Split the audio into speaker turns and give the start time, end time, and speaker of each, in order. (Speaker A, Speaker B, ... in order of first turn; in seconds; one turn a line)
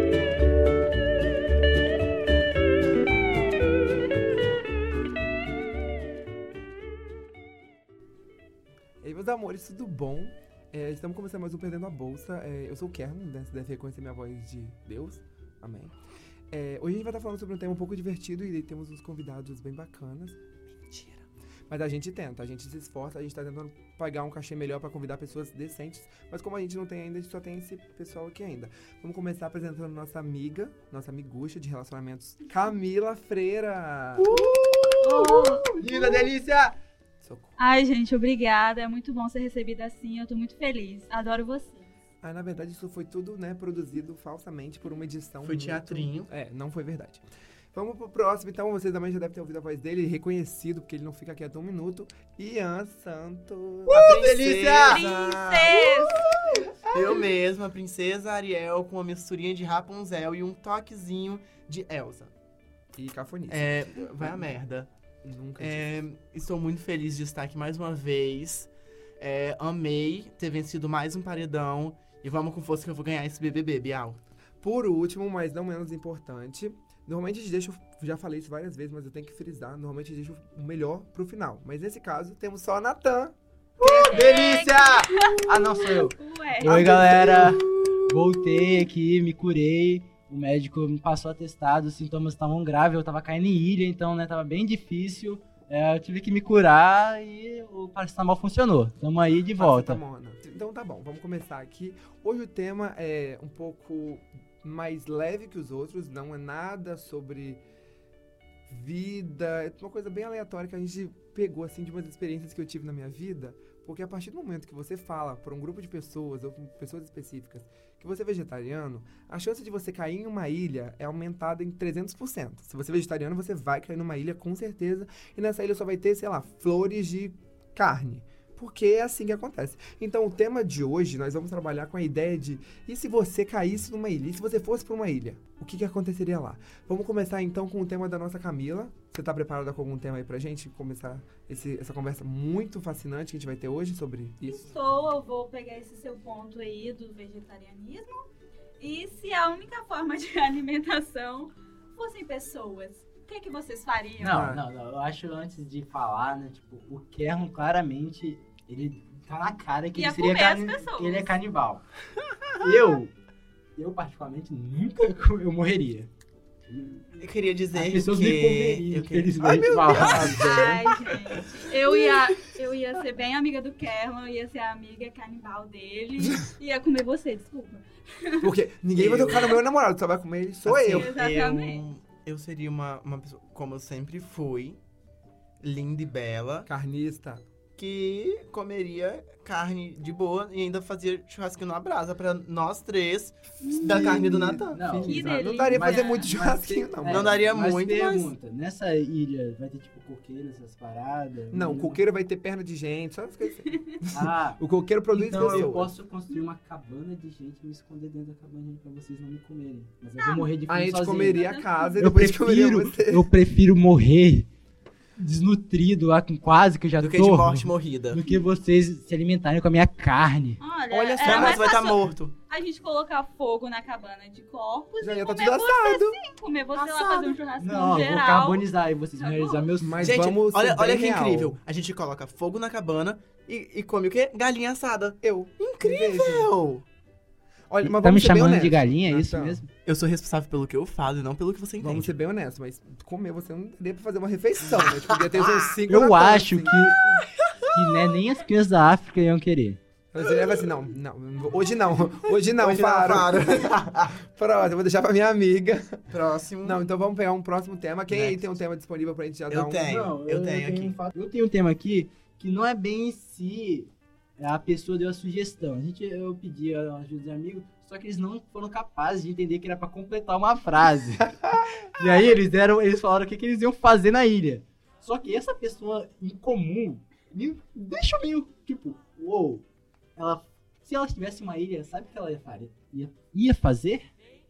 Speaker A: 9.0-16.0
Speaker A: 16.5-34.3
Speaker B: 34.2-36.8
Speaker C: 35.0-36.3
Speaker A: 37.2-37.6
Speaker C: 37.6-41.9
Speaker A: 42.2-54.5
Speaker D: 45.4-46.3
Speaker B: 53.9-55.0
Speaker D: 53.9-56.3
Speaker C: 54.9-56.2
Speaker D: 56.9-62.3
Speaker A: 63.0-64.6
Speaker D: 63.5-64.9
Speaker A: 65.2-65.9
Speaker D: 65.6-74.2
Speaker A: 74.6-83.3
Speaker B: 83.8-100.0
Speaker C: 83.8-86.9
Speaker D: 86.7-88.8
Speaker A: 99.6-107.6
Speaker A: 108.7-144.7
Speaker C: 144.4-148.2
Speaker C: 148.8-154.5
Speaker B: 154.2-161.8
Speaker A: 154.3-154.7
Speaker C: 159.9-161.4
Speaker B: 162.6-163.1
Speaker B: 163.8-166.1
Speaker B: 166.7-167.1
Speaker D: 167.2-169.7
Speaker B: 167.7-170.7
Speaker A: 169.4-171.2
Speaker C: 169.9-178.5
Speaker A: 178.4-181.1
Speaker D: 179.0-179.6
Speaker B: 180.7-181.0
Speaker D: 180.9-184.8
Speaker C: 180.9-181.9
Speaker D: 185.6-186.7
Speaker A: 186.7-187.4
Speaker D: 187.8-194.9
Speaker C: 193.6-194.4
Speaker A: 193.8-197.3
Speaker B: 194.7-202.0
Speaker C: 195.0-196.3
Speaker D: 197.1-198.3
Speaker A: 201.5-205.9
Speaker B: 204.1-211.4
Speaker C: 210.2-210.5
Speaker A: 210.7-213.3
Speaker C: 211.4-212.0
Speaker B: 212.0-214.5
Speaker B: 215.2-220.6
Speaker D: 217.0-218.2
Speaker C: 220.6-228.7
Speaker A: 220.9-221.6
Speaker D: 221.0-222.3
Speaker A: 225.0-226.2
Speaker B: 226.8-230.1
Speaker C: 229.2-229.7
Speaker A: 229.8-231.6
Speaker D: 230.0-236.8
Speaker A: 235.2-236.5
Speaker A: 237.7-239.7
Speaker B: 237.8-239.7
Speaker D: 239.8-242.1
Speaker A: 241.8-247.3
Speaker D: 244.6-245.7
Speaker B: 245.9-247.0
Speaker D: 247.4-247.8
Speaker B: 247.7-249.8
Speaker A: 250.1-253.4
Speaker D: 250.2-250.8
Speaker D: 252.3-254.2
Speaker A: 254.2-256.1
Speaker D: 256.1-256.8
Speaker A: 256.6-259.9
Speaker D: 258.1-258.4
Speaker D: 259.5-261.0
Speaker B: 259.9-271.4
Speaker B: 271.9-279.6
Speaker B: 280.2-284.1